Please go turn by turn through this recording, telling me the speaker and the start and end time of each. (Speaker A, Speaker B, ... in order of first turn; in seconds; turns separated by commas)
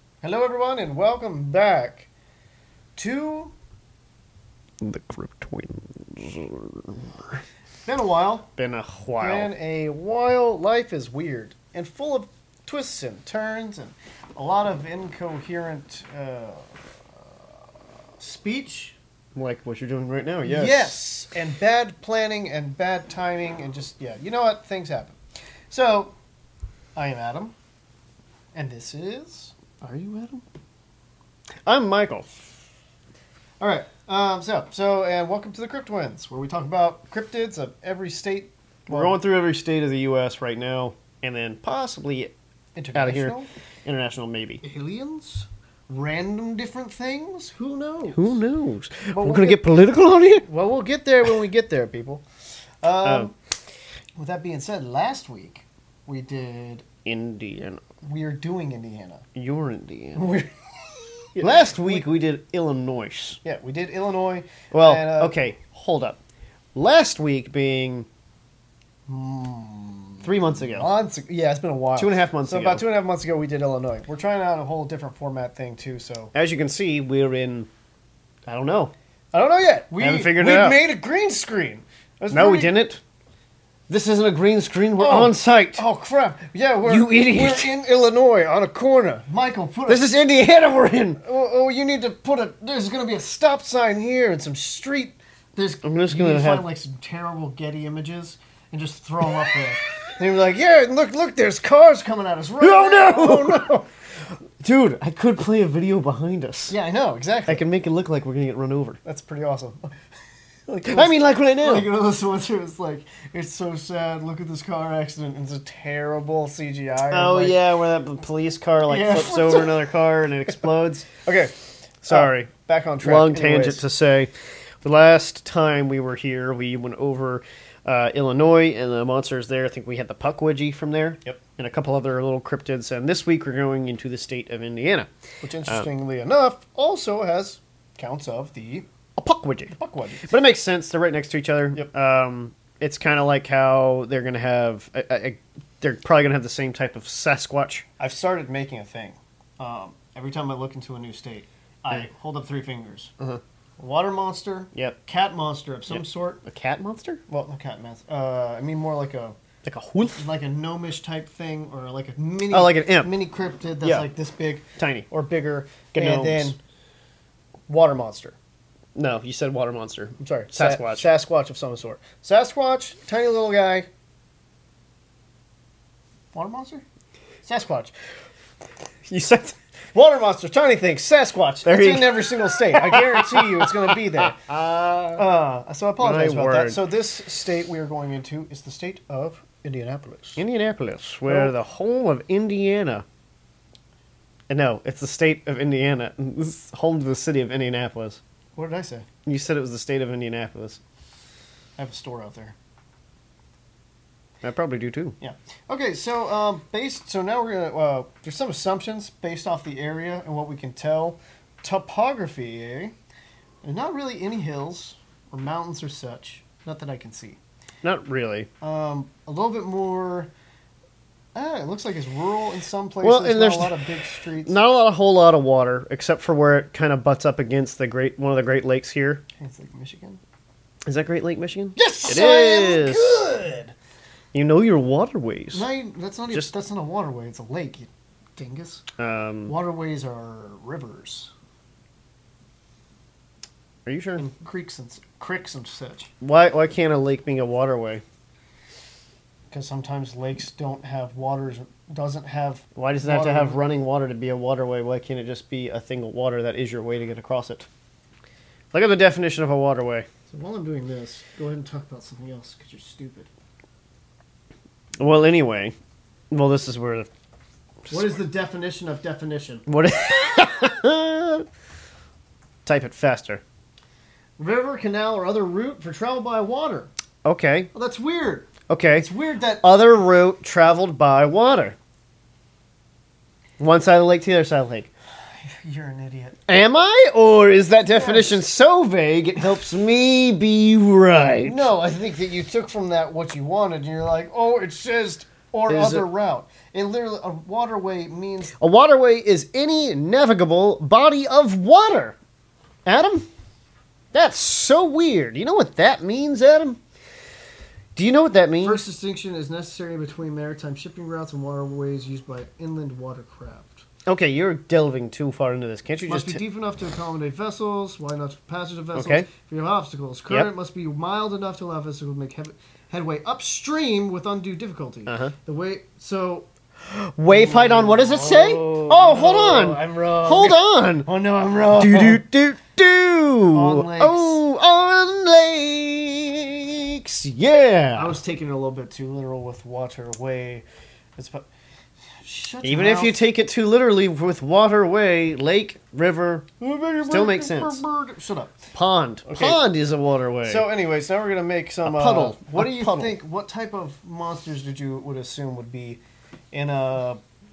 Speaker A: 0.2-2.1, Speaker A: 3.0-3.5, Speaker B: 4.8-7.4, Speaker A: 7.9-8.5, Speaker B: 8.6-9.5, Speaker A: 9.2-17.5, Speaker A: 18.2-19.0, Speaker B: 19.4-21.0, Speaker A: 20.4-25.2, Speaker A: 25.7-26.1, Speaker A: 27.0-27.6, Speaker A: 28.5-29.6, Speaker B: 29.8-30.4, Speaker B: 31.7-32.3, Speaker A: 33.6-39.2, Speaker B: 38.9-42.3, Speaker A: 42.8-43.5, Speaker B: 43.0-44.6, Speaker A: 44.6-48.4, Speaker B: 48.1-50.5, Speaker A: 49.1-49.6, Speaker A: 50.4-52.2, Speaker A: 52.8-53.3, Speaker B: 53.0-53.3, Speaker A: 54.2-56.9, Speaker B: 57.0-57.8, Speaker A: 58.0-59.3, Speaker B: 59.4-60.2, Speaker A: 60.2-62.0, Speaker B: 61.4-63.4, Speaker A: 63.4-65.4, Speaker B: 64.7-66.2, Speaker B: 66.8-68.1, Speaker A: 69.1-76.3, Speaker B: 70.2-70.9, Speaker B: 72.0-72.8, Speaker B: 76.3-77.7, Speaker B: 78.5-78.9, Speaker A: 79.3-82.8, Speaker B: 80.0-80.8, Speaker B: 82.3-83.0, Speaker B: 83.9-85.8, Speaker A: 85.0-90.1, Speaker B: 86.8-87.7, Speaker B: 89.9-91.2, Speaker A: 91.2-103.9, Speaker B: 95.8-96.7, Speaker B: 102.6-103.7, Speaker B: 104.3-106.8, Speaker A: 106.7-107.6, Speaker B: 107.5-109.0, Speaker A: 109.0-109.9, Speaker A: 110.7-117.6, Speaker B: 110.9-111.9, Speaker B: 117.1-121.1, Speaker A: 118.9-119.9, Speaker A: 121.2-121.5, Speaker B: 122.0-122.5, Speaker A: 122.1-123.8, Speaker B: 123.0-124.3, Speaker B: 124.8-135.1, Speaker A: 135.4-138.9, Speaker B: 139.2-139.7, Speaker A: 139.7-140.3, Speaker B: 140.2-147.9, Speaker A: 148.0-153.1, Speaker A: 153.8-156.4, Speaker B: 155.9-157.2, Speaker A: 157.3-159.4, Speaker B: 159.6-160.2, Speaker A: 160.1-166.6, Speaker B: 162.5-163.1, Speaker B: 163.8-164.1, Speaker B: 164.8-165.1, Speaker B: 165.9-166.6, Speaker A: 167.7-168.4, Speaker B: 168.9-171.1, Speaker A: 170.2-173.9, Speaker A: 176.3-176.8, Speaker A: 177.4-177.9, Speaker B: 179.1-179.6, Speaker A: 179.9-184.4, Speaker B: 181.6-185.2, Speaker A: 185.2-190.4, Speaker B: 186.0-186.8, Speaker B: 190.4-193.1, Speaker A: 191.3-191.5, Speaker B: 194.5-198.2, Speaker A: 198.6-199.1, Speaker B: 199.3-200.8, Speaker A: 201.8-202.6, Speaker B: 204.4-205.2, Speaker A: 205.2-212.9, Speaker A: 213.6-217.4, Speaker B: 217.8-218.5, Speaker A: 218.6-220.3, Speaker A: 221.3-224.6, Speaker B: 223.0-229.2, Speaker A: 229.4-230.2, Speaker B: 230.9-233.2, Speaker A: 231.8-233.7, Speaker B: 234.3-235.7, Speaker A: 235.5-238.8, Speaker B: 239.0-239.6, Speaker A: 239.5-241.3, Speaker B: 243.9-244.3, Speaker A: 244.2-246.1, Speaker B: 246.2-248.0, Speaker A: 249.5-253.6, Speaker B: 252.8-257.7, Speaker B: 258.7-260.1, Speaker A: 260.3-263.3, Speaker B: 265.0-265.7, Speaker B: 266.3-267.1, Speaker B: 267.9-268.2, Speaker A: 267.9-269.6, Speaker B: 269.7-271.5, Speaker B: 272.6-273.4, Speaker A: 274.4-276.9, Speaker B: 277.2-277.7, Speaker A: 277.7-279.6, Speaker B: 278.7-279.1, Speaker B: 279.6-281.8, Speaker B: 283.6-284.9, Speaker A: 285.3-286.4, Speaker B: 286.5-291.7, Speaker A: 287.9-288.4, Speaker A: 291.4-298.5, Speaker B: 295.7-296.1, Speaker B: 298.6-302.2, Speaker B: 302.9-303.3, Speaker B: 304.1-306.8, Speaker B: 308.0-308.8, Speaker A: 308.6-313.9, Speaker B: 314.1-316.4, Speaker A: 316.1-326.5, Speaker B: 318.9-319.3, Speaker B: 325.1-325.3, Speaker B: 326.8-331.1, Speaker A: 327.3-332.2, Speaker B: 331.8-338.1, Speaker A: 333.5-334.4, Speaker A: 337.9-340.6, Speaker A: 341.2-341.5, Speaker A: 342.2-343.2, Speaker B: 342.6-346.5, Speaker A: 346.6-348.6, Speaker B: 347.0-347.8, Speaker B: 348.7-350.7, Speaker A: 349.2-349.6, Speaker A: 350.4-356.0, Speaker B: 351.9-353.2, Speaker A: 356.5-357.2